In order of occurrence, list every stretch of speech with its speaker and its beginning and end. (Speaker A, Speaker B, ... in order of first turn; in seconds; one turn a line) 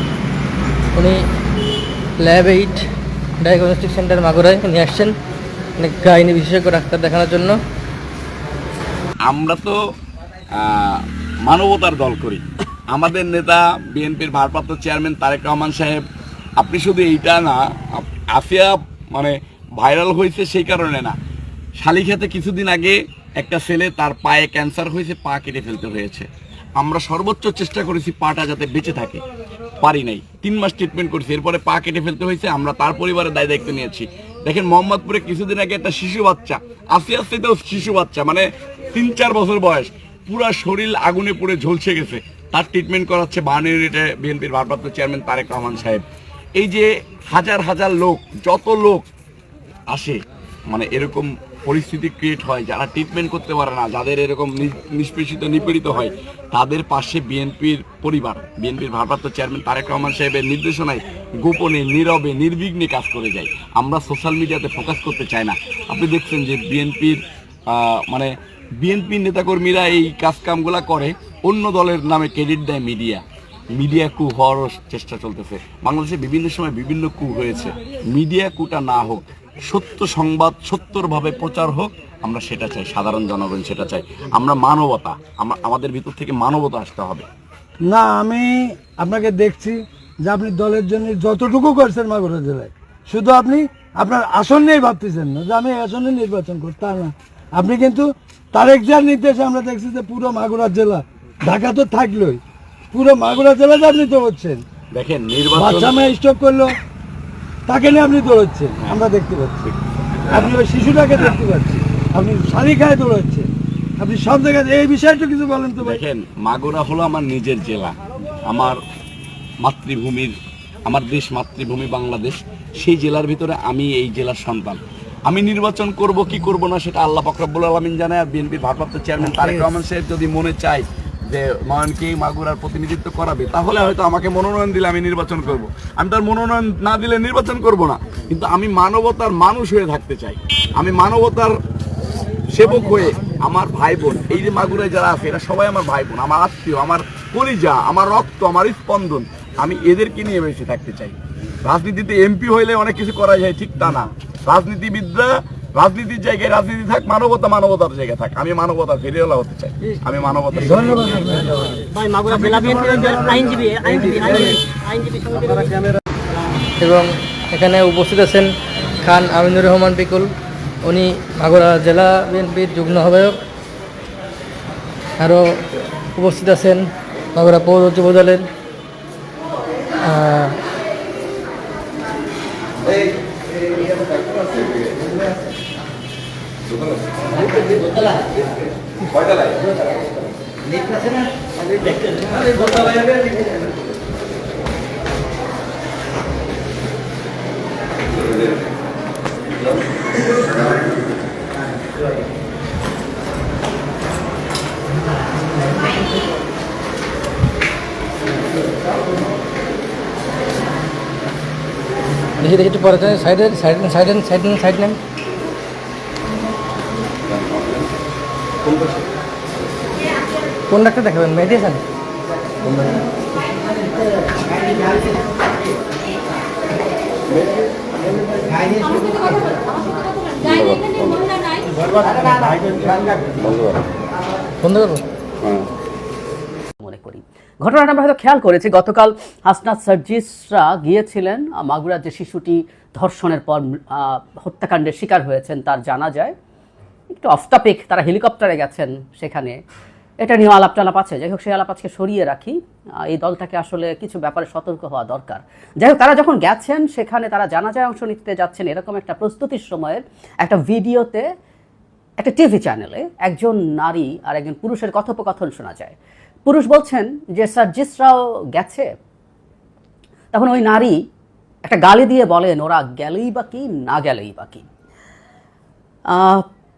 Speaker A: 0.9-1.2
Speaker A: 2.2-2.9
Speaker A: 3.4-5.2
Speaker A: 5.8-7.6
Speaker B: 9.2-9.8
Speaker B: 10.6-16.0
Speaker B: 16.6-21.2
Speaker B: 21.8-29.2
Speaker B: 29.8-46.0
Speaker B: 46.6-49.0
Speaker B: 49.9-50.2
Speaker B: 50.7-73.2
Speaker B: 73.8-87.3
Speaker C: 87.8-102.4
Speaker C: 102.9-104.6
Speaker B: 104.9-106.0
Speaker C: 105.5-106.8
Speaker C: 107.7-109.7
Speaker C: 110.3-116.0
Speaker B: 115.8-118.8
Speaker B: 119.6-120.3
Speaker B: 120.9-141.5
Speaker B: 142.5-161.1
Speaker C: 160.6-164.6
Speaker A: 166.8-168.5
Speaker A: 169.0-170.3
Speaker A: 170.8-173.4
Speaker A: 175.2-175.6
Speaker A: 176.2-178.5
Speaker A: 180.0-180.6
Speaker B: 189.2-189.5
Speaker B: 192.4-193.0
Speaker A: 212.4-215.0
Speaker B: 217.4-217.8
Speaker A: 220.7-221.8
Speaker B: 230.4-231.3
Speaker B: 232.3-233.8
Speaker A: 234.6-235.0
Speaker D: 236.8-246.3
Speaker D: 247.1-249.6
Speaker D: 250.2-261.2
Speaker D: 262.2-265.9
Speaker D: 266.5-268.9
Speaker D: 270.3-271.0
Speaker D: 271.6-274.7
Speaker D: 276.1-276.4